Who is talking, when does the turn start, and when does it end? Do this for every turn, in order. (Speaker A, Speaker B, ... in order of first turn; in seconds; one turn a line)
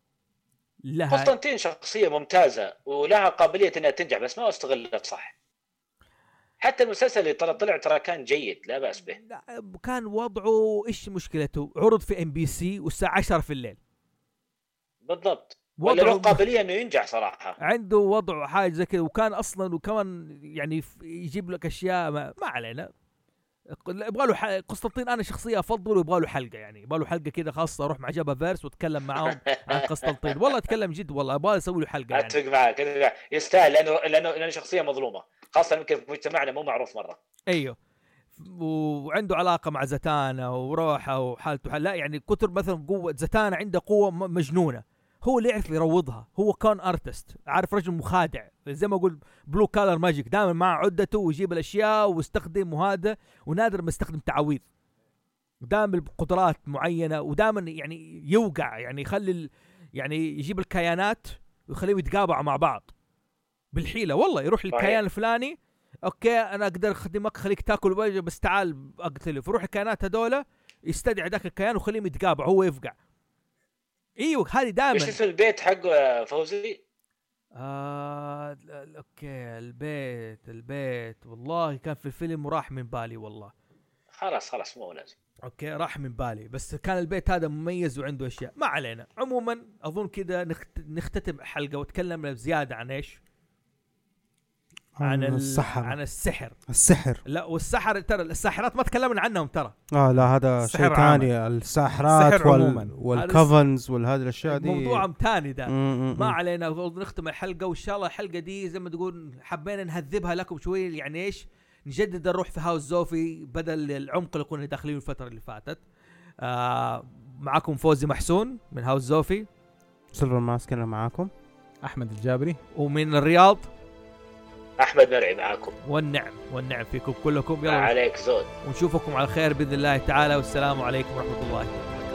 Speaker A: 0.9-1.3
Speaker B: 1.1-5.3
Speaker B: 6.6-9.2
Speaker A: 9.2-13.8
Speaker B: 15.1-17.6
Speaker A: 15.8-16.4
Speaker A: 17.6-22.9
Speaker A: 23.7-32.4
Speaker B: 29.3-29.8
Speaker B: 32.1-37.2
Speaker A: 37.5-37.8
Speaker A: 38.4-54.6
Speaker A: 55.6-62.9
Speaker A: 63.7-73.0
Speaker B: 64.7-65.0
Speaker A: 74.2-75.2
Speaker B: 74.9-76.8
Speaker A: 77.6-83.5
Speaker B: 84.1-85.1
Speaker A: 85.4-93.2
Speaker C: 95.0-96.0
Speaker A: 95.0-96.6
Speaker C: 96.7-97.2
Speaker A: 97.3-99.8
Speaker C: 99.9-105.1
Speaker D: 100.6-101.3
Speaker D: 102.1-102.9
Speaker A: 103.1-103.5
Speaker A: 104.5-115.8
Speaker C: 105.7-106.4
Speaker A: 116.4-119.5
Speaker C: 120.1-121.3
Speaker D: 121.8-122.6
Speaker A: 122.8-123.7
Speaker B: 124.8-125.7
Speaker A: 125.9-127.9
Speaker B: 127.7-128.5
Speaker A: 128.7-131.9